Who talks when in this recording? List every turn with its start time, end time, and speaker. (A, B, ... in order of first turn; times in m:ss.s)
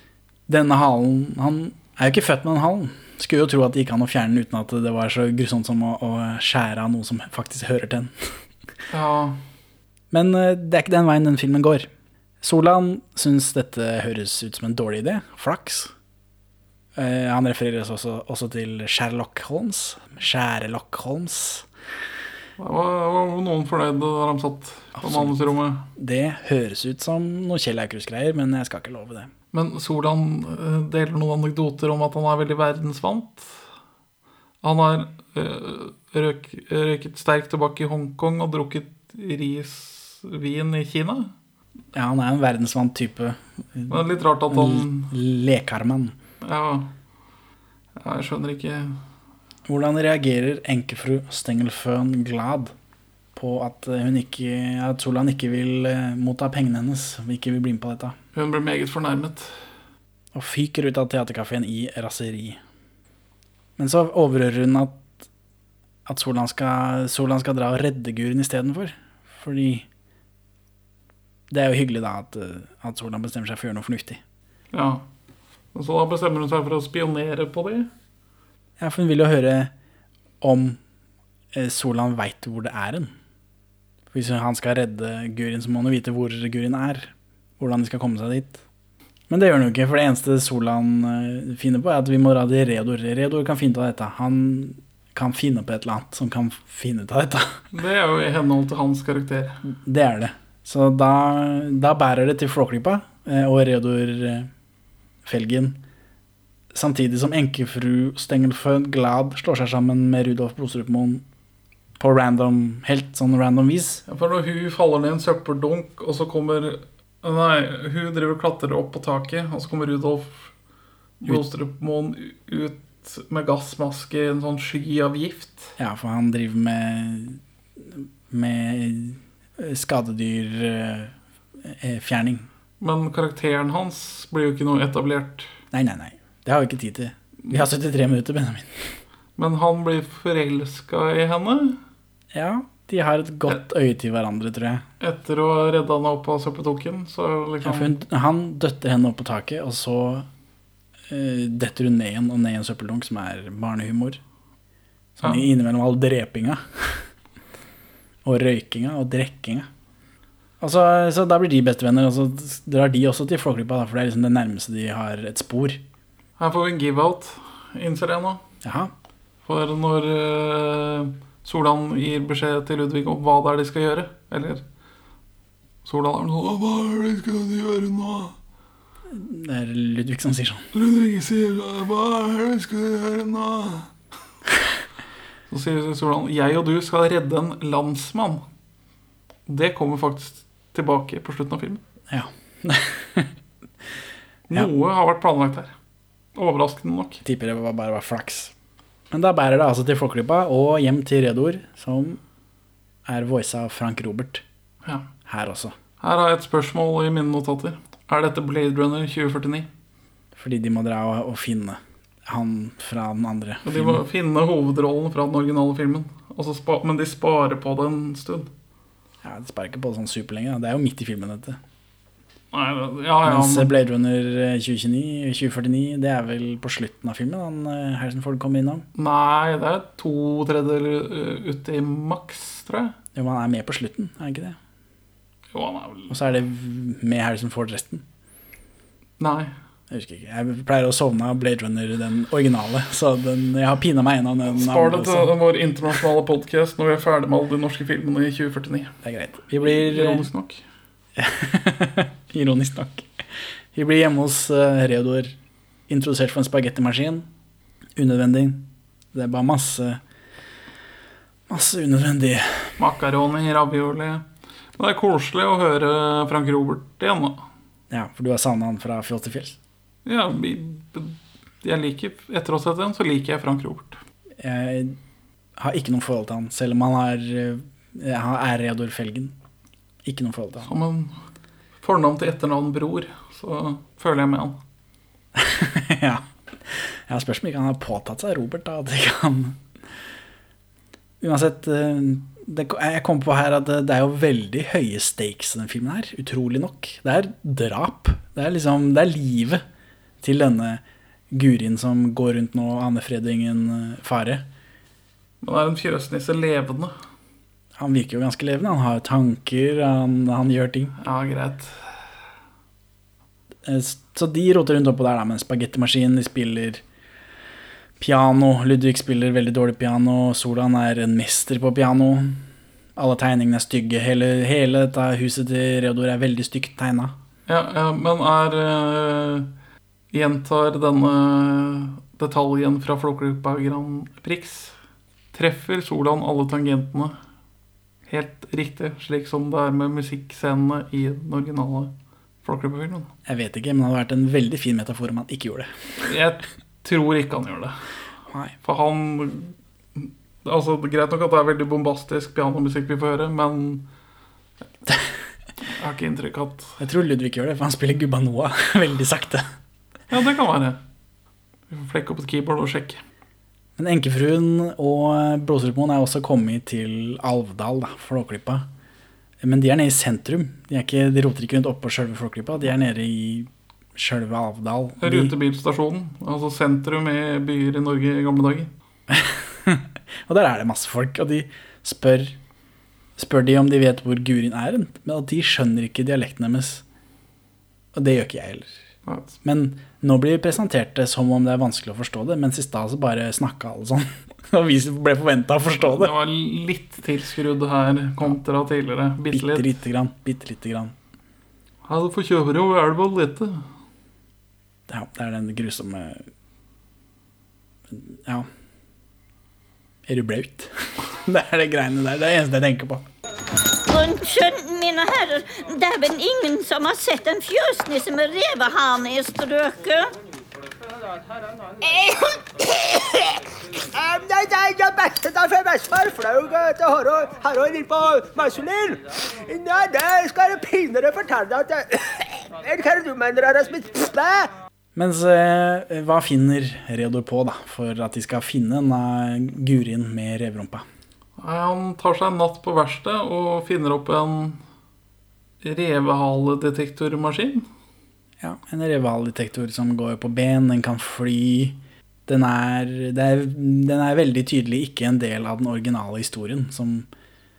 0:00.5-0:08.3 A
0:08.9-0:09.4 B
0:10.1-0:11.9 A
0:12.4-0:15.9 A
0:17.0-0:21.6 A
0:22.6-0:25.9 B
0:25.0-0:25.4 A
0:26.0-0:29.3 A
0:29.5-0:33.6 B
0:34.6-0:41.3 B
0:41.9-0:46.1 A
0:43.9-0:45.1 B
0:46.4-0:46.9 B
0:48.0-0:49.0 B
0:49.7-0:52.7 A
0:53.3-0:58.2 A
0:58.3-0:59.6 B
1:00.3-1:02.6 A
1:03.8-1:05.1 A
1:06.0-1:09.8 A
1:11.5-1:14.2 A
1:14.7-1:15.0 B
1:15.7-1:17.9 B
1:18.8-1:19.7 A
1:20.4-1:20.8 A
1:21.5-1:23.1 A
1:24.1-1:28.6 A
1:29.3-1:37.6 A
1:37.7-1:39.6 B
1:39.6-1:44.5 A
1:45.2-1:45.8 A
1:46.7-1:51.2 A
1:52.0-1:54.0 A
1:54.1-2:00.5 B
2:01.2-2:05.8 B
2:05.8-2:12.5 A
2:12.8-2:15.5 B
2:15.7-2:18.9 A
2:19.4-2:21.8 B
2:22.3-2:24.8 A
2:25.0-2:27.9 B
2:27.6-2:30.3 A
2:31.1-2:34.2 A
2:35.2-2:37.1 A
2:38.2-2:39.7 A
2:40.6-2:45.8 A
2:46.4-2:48.4 B
2:48.6-2:48.9 A
2:49.4-2:54.6 B
2:55.8-2:58.3 B
2:59.1-3:00.7 A
3:00.7-3:03.9 B
3:05.5-3:08.4 B
3:09.5-3:11.8 B
3:12.1-3:13.3 A
3:14.5-3:15.7 B
3:16.3-3:17.2 B
3:17.2-3:18.5 A
3:19.1-3:22.2 A
3:23.0-3:24.4 A
3:25.3-3:25.8 A
3:26.0-3:29.7 B
3:30.4-3:34.0 A
3:33.6-3:38.5 B
3:39.2-3:41.6 A
3:42.5-3:43.7 B
3:43.2-3:48.8 A
3:49.0-3:52.9 B
3:53.1-3:54.6 A
3:55.5-3:56.2 B
3:56.1-3:58.0 A
3:59.2-3:59.5 B
3:59.9-4:05.3 A
4:04.6-4:09.0 B
4:09.0-4:10.3 A
4:09.6-4:10.6 B
4:11.2-4:13.1 A
4:13.7-4:15.3 A
4:15.9-4:17.3 A
4:18.0-4:20.0 A
4:21.5-4:22.8 A
4:22.8-4:24.2 B
4:24.8-4:27.4 B
4:27.9-4:29.6 A
4:30.0-4:34.0 B
4:34.4-4:35.0 A
4:35.6-4:39.3 A
4:40.0-4:40.7 A
4:40.6-4:41.2 B
4:41.8-4:44.6 B
4:45.4-4:49.6 A
4:51.2-4:59.6 A
5:00.2-5:04.4 A
5:05.4-5:07.0 B
5:07.8-5:11.0 A
5:11.0-5:11.8 B
5:13.6-5:16.8 A
5:18.0-5:22.4 A
5:23.0-5:27.1 A
5:27.5-5:29.5 B
5:30.1-5:34.7 B
5:35.3-5:37.2 B
5:38.1-5:41.9 B
5:42.4-5:43.1 B
5:43.2-5:45.7 A
5:46.0-5:47.8 B
5:48.6-5:53.9 B
5:55.7-5:56.8 B
5:56.8-5:59.5 A
6:00.1-6:00.8 B
6:01.7-6:03.0 B
6:03.8-6:08.7 A
6:09.4-6:15.3 A
6:15.0-6:18.7 B
6:19.1-6:22.4 A
6:23.2-6:26.8 A
6:27.9-6:28.8 A
6:29.0-6:29.4 B
6:29.4-6:36.1 A
6:35.8-6:39.7 B
6:39.3-6:40.9 A
6:41.9-6:43.6 B
6:44.9-6:46.2 A
6:47.9-6:48.5 A
6:50.1-6:53.0 A
6:53.8-7:00.1 C
7:01.8-7:03.2 D
7:03.9-7:14.5 D
7:14.9-7:20.8 A
7:21.4-7:24.6 B
7:25.6-7:27.6 B
7:28.4-7:37.1 A